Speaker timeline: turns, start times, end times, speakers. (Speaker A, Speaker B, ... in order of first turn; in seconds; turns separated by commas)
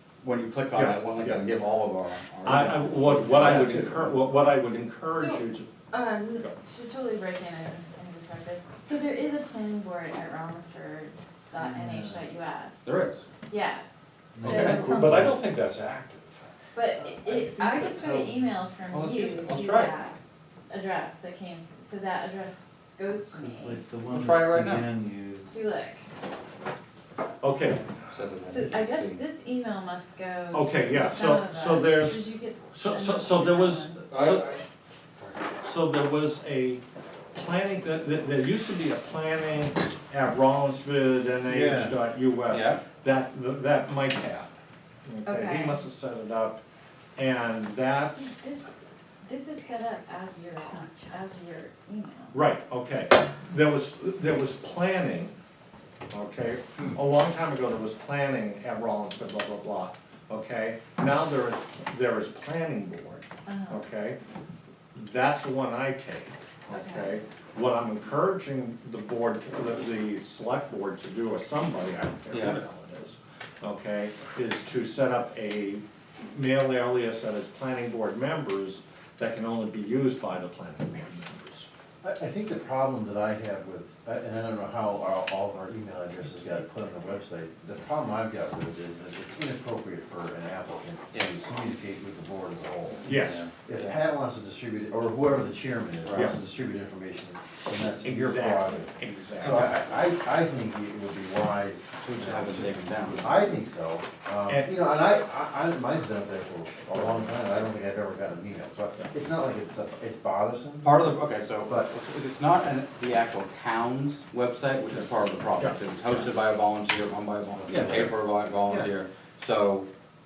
Speaker A: 0.2-4.2, Speaker B: 0.7-1.4, Speaker B: 2.4-5.7, Speaker C: 5.1-12.9, Speaker D: 11.6-12.2, Speaker A: 12.8-13.2, Speaker C: 13.5-15.3, Speaker D: 14.4-15.3, Speaker A: 14.4-14.9, Speaker B: 14.5-16.5, Speaker C: 16.7-23.9, Speaker D: 17.2-18.4, Speaker A: 18.9-19.9, Speaker D: 23.4-25.6, Speaker A: 24.1-25.0, Speaker C: 25.5-26.1, Speaker B: 27.4-27.9, Speaker A: 28.1-29.2, Speaker C: 28.4-34.1, Speaker B: 30.5-34.5, Speaker E: 34.2-34.6, Speaker B: 35.6-36.8, Speaker B: 37.3-44.5, Speaker E: 41.5-41.9, Speaker A: 42.5-42.8, Speaker B: 45.0-46.6, Speaker C: 45.2-45.8, Speaker B: 47.2-48.3, Speaker C: 48.2-48.7, Speaker C: 49.2-52.3, Speaker B: 52.3-55.3, Speaker B: 56.1-64.2, Speaker C: 63.5-63.8, Speaker B: 64.9-81.7, Speaker C: 66.7-67.2, Speaker A: 72.3-72.6, Speaker E: 82.0-111.9, Speaker A: 91.1-91.5, Speaker A: 93.0-93.9, Speaker B: 93.0-93.4, Speaker A: 96.0-96.3, Speaker B: 98.0-99.7, Speaker A: 102.1-103.5, Speaker A: 110.8-119.9, Speaker E: 117.7-118.9